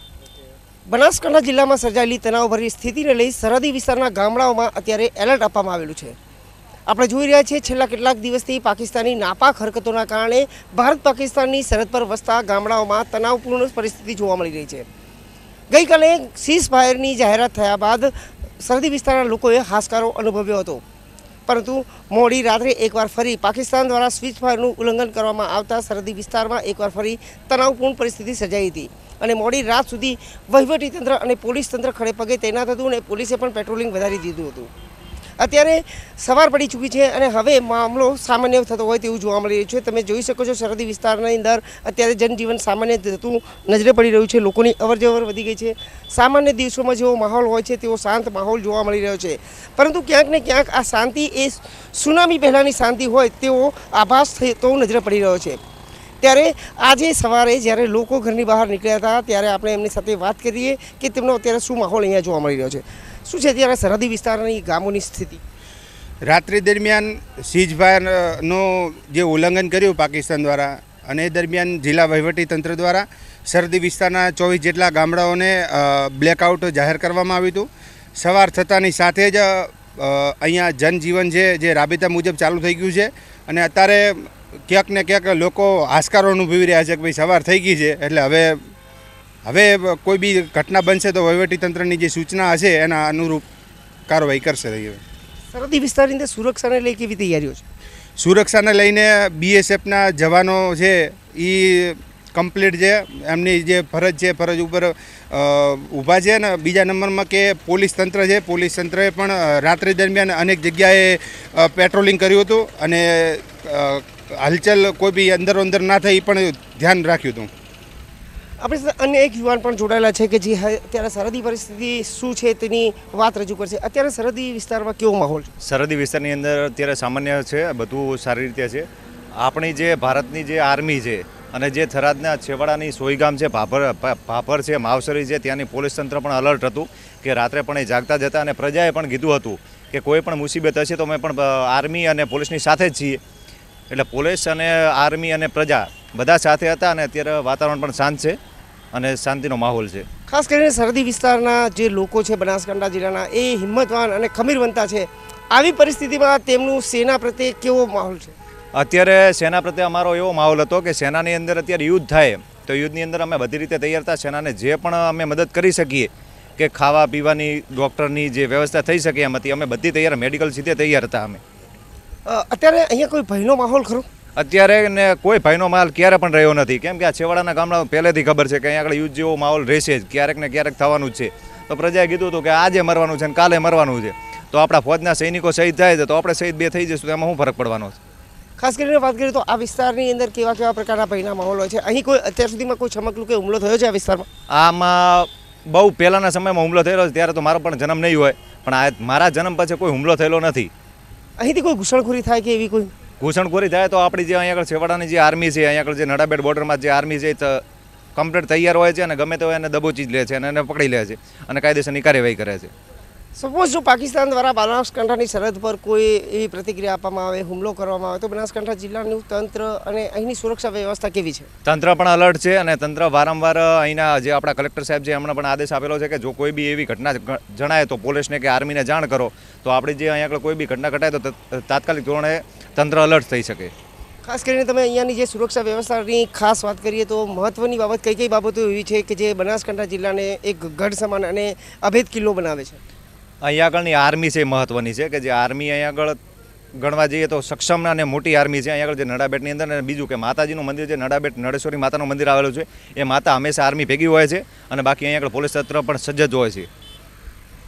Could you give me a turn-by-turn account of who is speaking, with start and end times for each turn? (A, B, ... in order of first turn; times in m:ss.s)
0:00.9-0:06.2 A
0:06.9-0:14.8 A
0:15.7-0:20.8 A
0:21.5-0:34.7 A
0:35.4-0:55.6 A
0:56.2-1:05.4 A
1:06.2-1:28.6 B
1:29.4-1:33.4 B
1:34.1-1:35.0 B
1:35.5-1:37.6 A
1:38.2-1:57.5 B
1:58.6-2:05.5 A
2:05.6-2:08.9 C
2:09.4-2:23.2 C
2:23.9-2:28.4 C
2:28.9-2:30.0 C
2:30.3-2:38.3 A
2:38.7-2:51.4 C
2:52.2-2:54.0 A
2:54.4-3:08.0 C
3:08.6-3:14.3 A
3:14.5-3:20.7 C
3:21.4-3:22.9 A
3:23.2-3:27.6 C
3:28.2-3:32.7 C
3:33.4-3:41.5 A
3:41.6-3:53.7 C
3:54.2-4:02.8 A
4:03.4-4:06.2 C
4:06.8-4:16.7 C